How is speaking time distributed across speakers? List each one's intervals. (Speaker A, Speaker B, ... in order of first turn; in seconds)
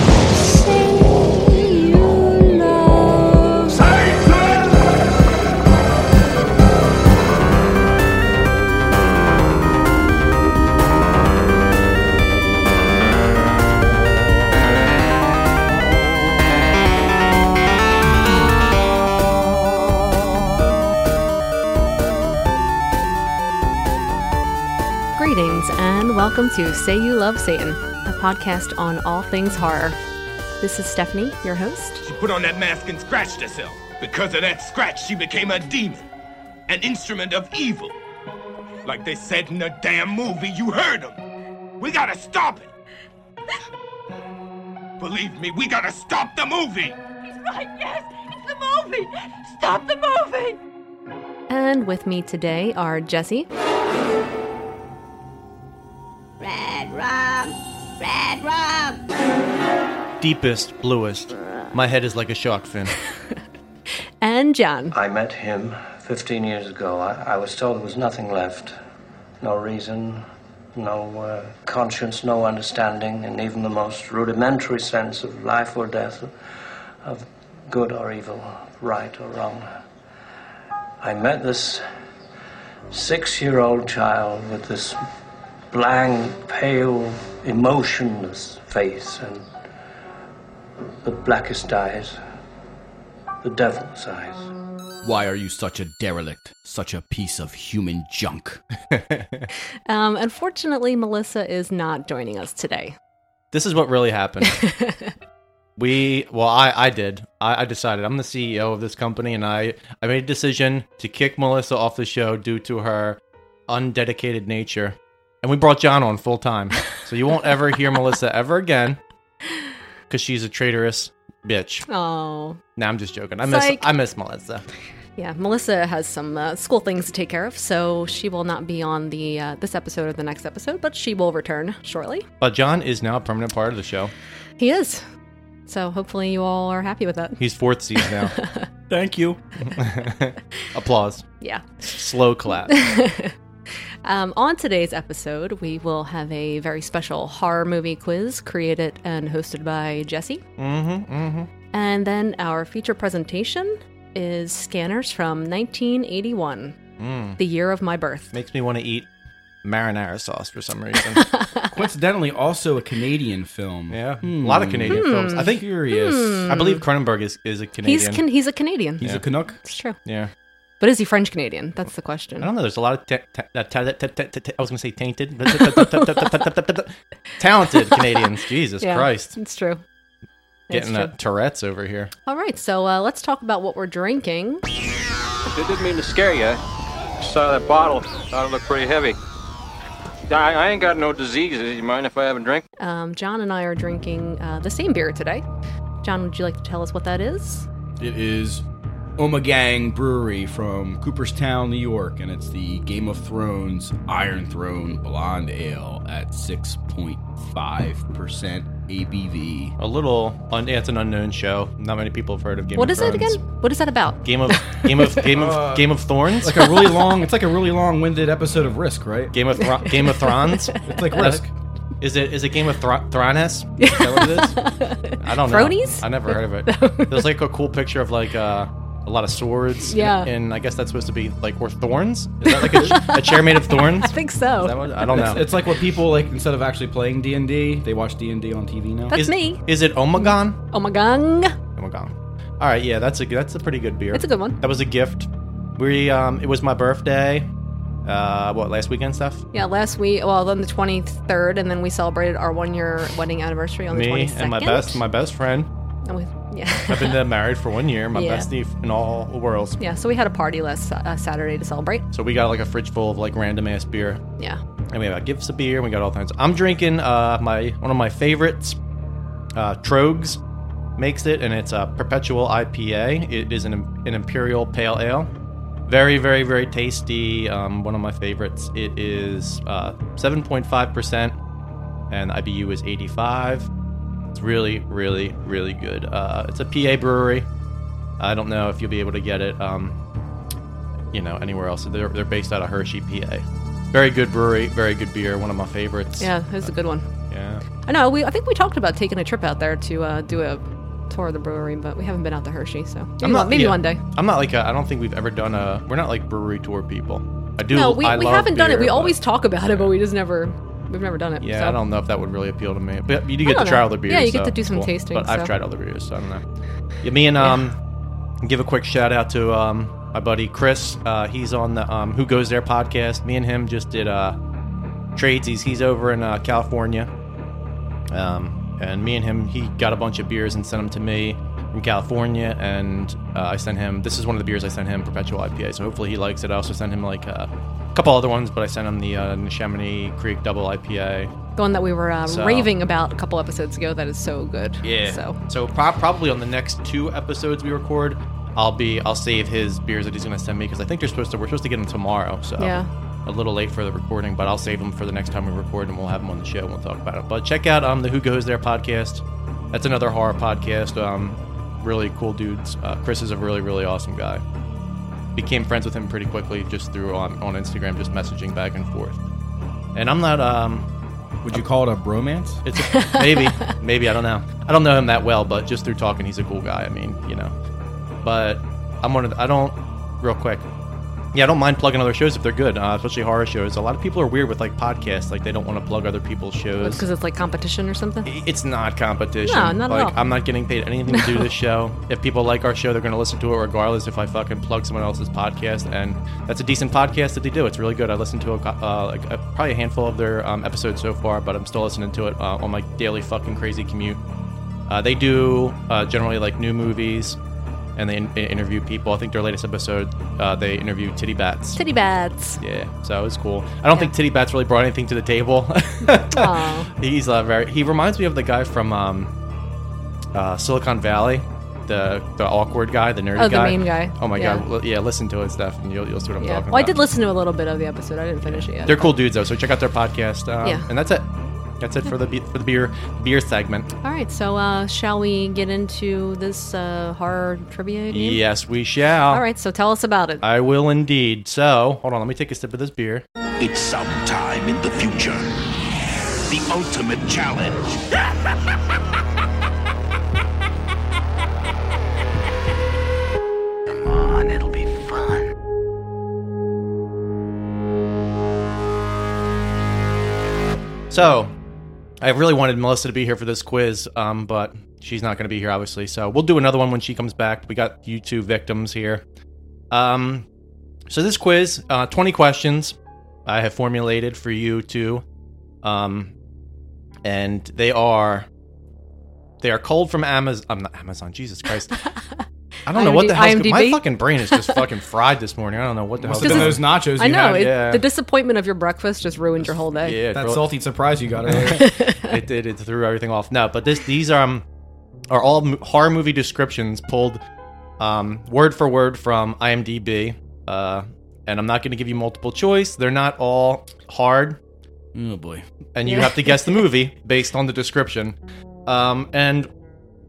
Speaker A: 1.4-4.7, 443.6-445.6, 446.5-448.4, 453.9-455.5
Speaker B: 25.2-30.0, 30.6-32.0, 51.5-53.5, 64.2-65.0, 99.9-103.0, 104.5-105.1, 121.9-122.6, 123.4-123.8, 125.2-132.2, 134.6-135.1, 135.7-137.4, 138.0-138.7, 141.4-141.9, 142.7-143.3, 144.1-150.4, 151.7-156.8, 157.4-158.3, 161.2-161.7, 164.9-166.8, 167.8-169.0, 169.6-170.0, 170.8-172.5, 175.5-176.3, 178.8-179.8, 180.7-181.1, 182.2-184.6, 192.8-195.4, 196.0-197.7, 212.8-215.2, 219.8-220.8, 223.8-227.3, 229.9-230.3, 232.4-235.3, 239.1-239.6, 240.2-241.6, 244.1-244.6, 249.5-255.0, 256.1-257.2, 258.1-258.5, 259.8-262.0, 296.2-297.1, 297.8-304.0, 307.7-311.8, 313.4-315.5, 317.4-317.6, 341.6-345.4, 352.6-352.9, 372.8-373.5, 386.8-388.3, 389.4-390.1, 391.1-391.5, 411.8-412.6, 416.1-416.9, 423.3-424.6, 426.4-429.1, 434.0-438.4, 439.3-440.4, 482.9-484.7, 486.3-490.2, 491.8-492.4, 506.1-506.8
Speaker C: 32.0-36.0, 36.7-38.0, 38.8-41.2, 41.8-42.7, 45.0-47.0
Speaker D: 47.3-50.6, 58.6-58.9
Speaker E: 60.2-63.0, 98.9-99.5, 103.5-104.6, 105.8-119.0, 120.1-121.9, 122.8-124.6, 132.4-134.1, 137.4-138.3, 139.6-141.2, 141.9-142.7, 150.6-151.5, 157.0-157.4, 158.3-159.1, 159.6-161.3, 163.9-168.2, 170.1-170.3, 172.4-179.3, 180.7-182.1, 209.8-213.4, 214.2-216.7, 219.3-221.4, 222.0-224.6, 225.2-235.4, 239.1-240.6, 241.8-247.5, 248.1-249.4, 253.9-255.7, 256.9-259.8, 262.1-264.2, 264.9-268.8, 269.5-270.4, 271.0-275.3, 275.9-281.4, 282.1-283.7, 284.3-287.4, 288.2-290.0, 291.1-296.7, 297.3-297.6, 303.2-309.1, 311.4-316.4, 317.0-317.8, 318.4-324.4, 325.1-327.1, 328.1-341.3, 342.3-342.7, 344.8-364.4, 365.4-369.2, 369.9-370.9, 372.6-377.5, 378.2-380.6, 381.3-387.0, 388.2-404.2, 404.9-407.4, 408.0-411.8, 412.6-419.3, 420.3-426.9, 428.4-431.3, 431.8-433.9, 438.1-439.4, 440.4-443.2, 461.1-461.5, 462.2-469.2, 469.9-470.4, 471.1-472.9, 473.4-475.2, 475.8-476.3, 477.2-478.5, 479.6-482.0, 482.9-488.0, 490.0-490.6, 491.4-494.6, 495.3-497.4, 498.0-504.6, 505.9-509.7
Speaker F: 64.9-68.8, 69.4-70.2, 70.8-76.3, 77.0-79.7, 81.0-81.8, 82.9-85.0, 85.7-89.5, 91.0-92.2, 93.4-94.5
Speaker G: 95.0-98.6, 138.9-139.4, 161.7-166.4, 169.0-169.6, 198.0-198.6, 199.2-209.8, 215.3-219.3, 220.8-221.5, 235.1-239.1, 371.4-372.6, 486.2-487.6, 490.3-491.9, 505.1-505.6
Speaker H: 185.5-186.6, 187.2-189.2, 190.3-192.6